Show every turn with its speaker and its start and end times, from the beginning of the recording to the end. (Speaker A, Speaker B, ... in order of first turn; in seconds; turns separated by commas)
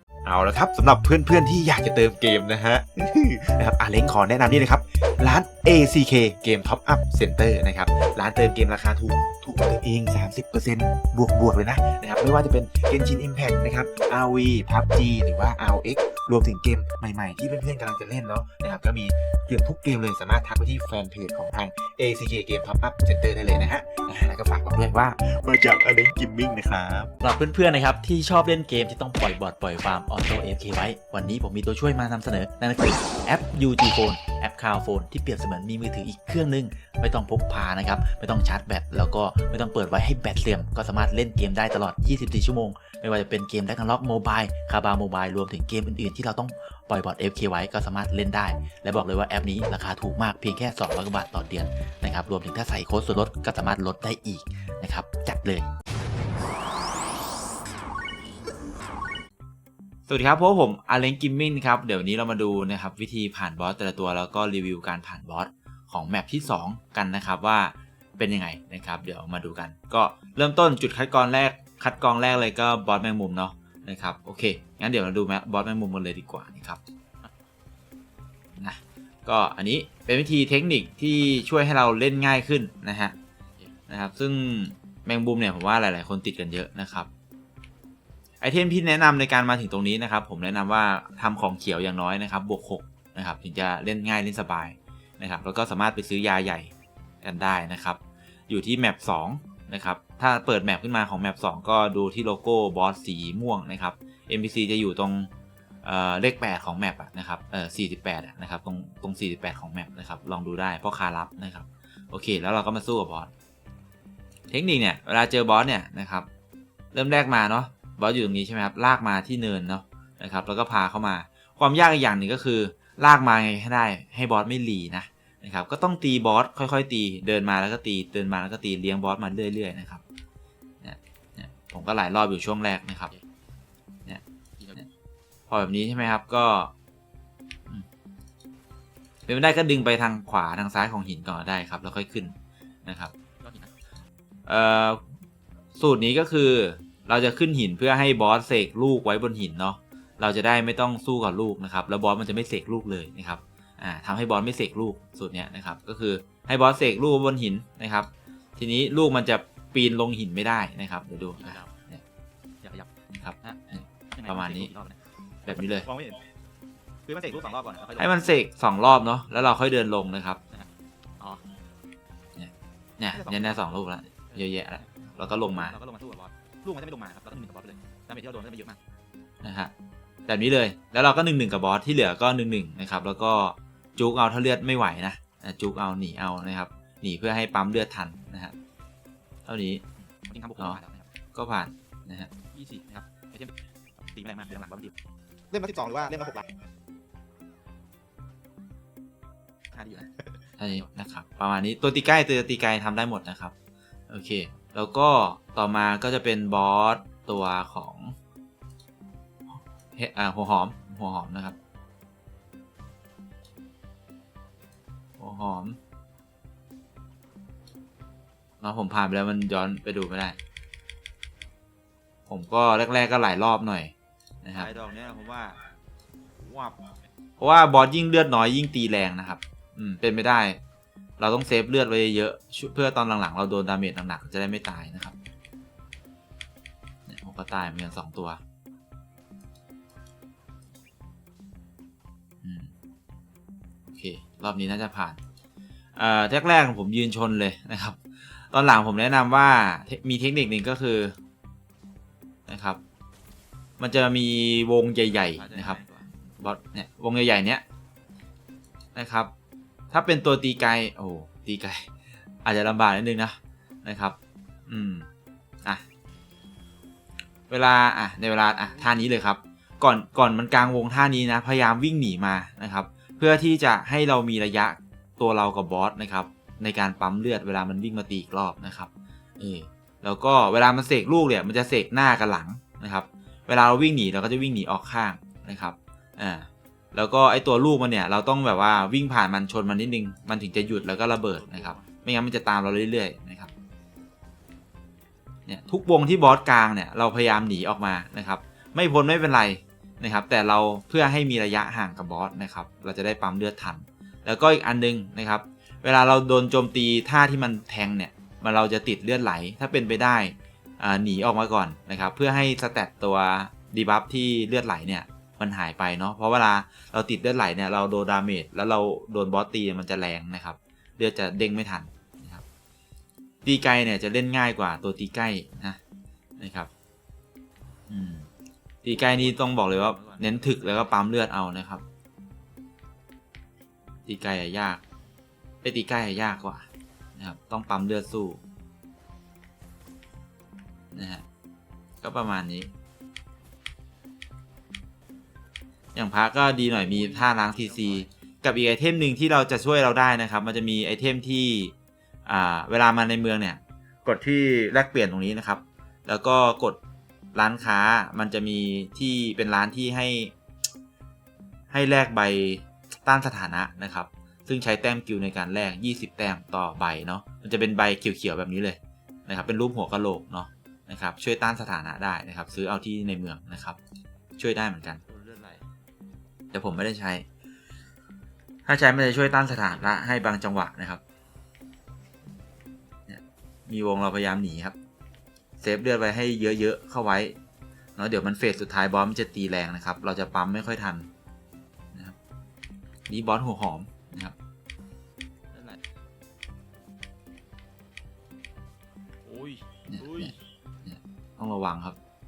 Speaker A: 0.2-27.1, Speaker B: 27.1-55.7, Speaker B: 60.1-76.8, Speaker B: 78.6-83.1, Speaker B: 83.9-87.1, Speaker B: 88.4-105.3, Speaker B: 105.8-113.3, Speaker B: 114.5-116.3, Speaker B: 116.9-130.0, Speaker B: 130.8-133.1, Speaker B: 135.5-136.7, Speaker B: 139.2-142.3, Speaker B: 142.8-143.1, Speaker C: 143.4-143.7, Speaker B: 144.4-145.0, Speaker B: 145.8-162.0, Speaker C: 161.4-161.7, Speaker C: 162.6-162.9, Speaker B: 163.1-164.7, Speaker C: 163.4-165.0, Speaker B: 165.4-165.9, Speaker C: 165.8-166.2, Speaker C: 167.1-168.2, Speaker B: 168.0-170.4, Speaker C: 170.5-171.4, Speaker B: 172.3-175.8, Speaker C: 173.1-173.8, Speaker C: 174.3-174.9, Speaker C: 175.5-178.8, Speaker B: 179.4-179.7, Speaker B: 180.3-188.6, Speaker B: 189.4-189.8, Speaker C: 190.0-191.1, Speaker B: 191.3-192.3, Speaker C: 192.5-194.9, Speaker C: 195.5-196.5, Speaker C: 199.7-200.8, Speaker B: 200.6-203.5, Speaker B: 204.1-208.2, Speaker B: 209.9-211.6, Speaker B: 215.2-215.8, Speaker B: 218.6-220.3, Speaker B: 222.3-224.7, Speaker C: 224.5-225.6, Speaker C: 226.3-227.0, Speaker B: 227.4-230.6, Speaker B: 231.2-235.2, Speaker B: 237.1-238.4, Speaker B: 242.4-242.7, Speaker B: 243.9-245.2, Speaker B: 245.9-251.2, Speaker B: 252.5-252.8, Speaker B: 253.8-255.8, Speaker C: 255.1-256.1, Speaker B: 256.3-257.6, Speaker B: 258.9-259.3, Speaker B: 259.9-261.9, Speaker B: 262.4-264.1, Speaker B: 264.7-265.1, Speaker B: 267.5-293.5, Speaker C: 268.6-269.1, Speaker C: 290.7-291.9, Speaker B: 295.5-322.4, Speaker B: 323.4-325.8, Speaker B: 326.4-326.7, Speaker B: 327.9-328.3, Speaker B: 328.8-331.8, Speaker C: 328.9-331.0, Speaker B: 334.1-334.8, Speaker B: 335.6-338.4, Speaker B: 340.9-341.2, Speaker B: 342.0-342.7, Speaker B: 345.9-351.7, Speaker C: 346.6-348.1, Speaker B: 352.2-356.8, Speaker B: 357.3-360.3, Speaker B: 361.7-373.8, Speaker B: 374.4-375.0, Speaker C: 375.0-375.6, Speaker B: 376.5-377.2, Speaker B: 378.6-381.0, Speaker B: 383.1-384.8, Speaker B: 385.6-387.4, Speaker B: 388.0-391.1, Speaker B: 393.1-394.3, Speaker C: 395.5-395.8, Speaker C: 399.2-400.4, Speaker B: 399.9-400.3, Speaker B: 400.8-402.0